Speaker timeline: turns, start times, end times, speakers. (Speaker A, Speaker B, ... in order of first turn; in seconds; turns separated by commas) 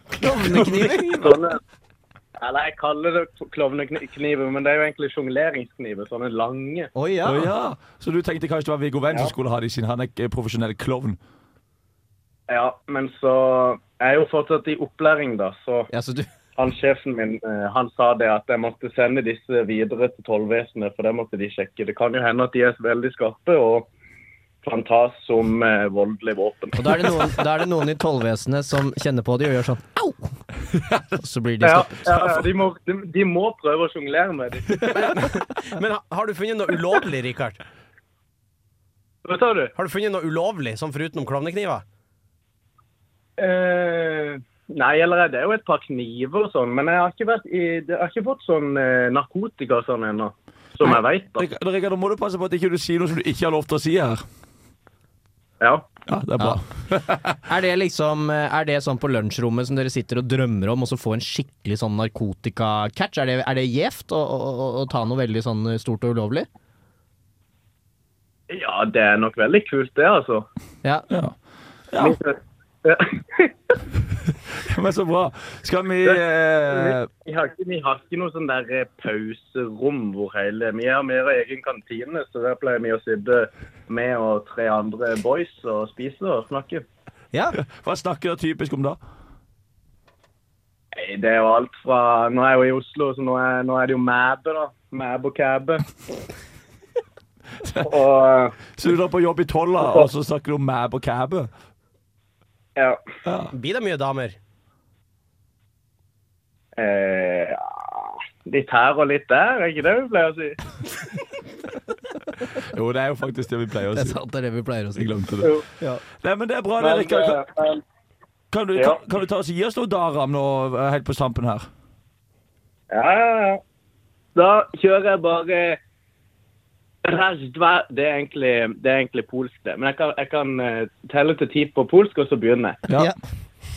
Speaker A: 0.1-1.4, Speaker B: 1.2-1.6, Speaker B: 2.4-6.9, Speaker A: 6.9-7.5, Speaker C: 7.2-11.2, Speaker B: 12.5-15.9, Speaker A: 15.9-16.3, Speaker B: 16.6-23.9, Speaker B: 24.6-26.9, Speaker A: 26.7-30.3, Speaker A: 31.1-32.1, Speaker B: 31.6-34.8, Speaker D: 34.9-37.6, Speaker B: 39.2-39.7, Speaker D: 39.8-41.8, Speaker B: 43.4-51.5, Speaker C: 50.8-54.2, Speaker B: 55.6-55.9, Speaker C: 56.1-57.4, Speaker A: 57.5-66.5, Speaker B: 68.5-70.5, Speaker C: 71.1-71.3, Speaker C: 71.9-72.2, Speaker B: 72.0-73.5, Speaker C: 74.5-77.1, Speaker B: 76.0-86.8, Speaker C: 87.6-89.0, Speaker B: 90.9-95.8, Speaker C: 97.6-98.0, Speaker B: 97.8-98.5, Speaker C: 98.7-101.5, Speaker B: 99.8-100.1, Speaker B: 102.8-103.0, Speaker C: 103.2-103.5, Speaker D: 103.5-104.4, Speaker B: 106.8-110.6, Speaker C: 112.6-114.2, Speaker A: 113.9-115.1, Speaker C: 114.9-115.5, Speaker C: 116.2-117.4, Speaker B: 116.8-117.8, Speaker C: 118.5-121.7, Speaker B: 122.9-123.6, Speaker B: 124.3-125.8, Speaker B: 127.0-132.8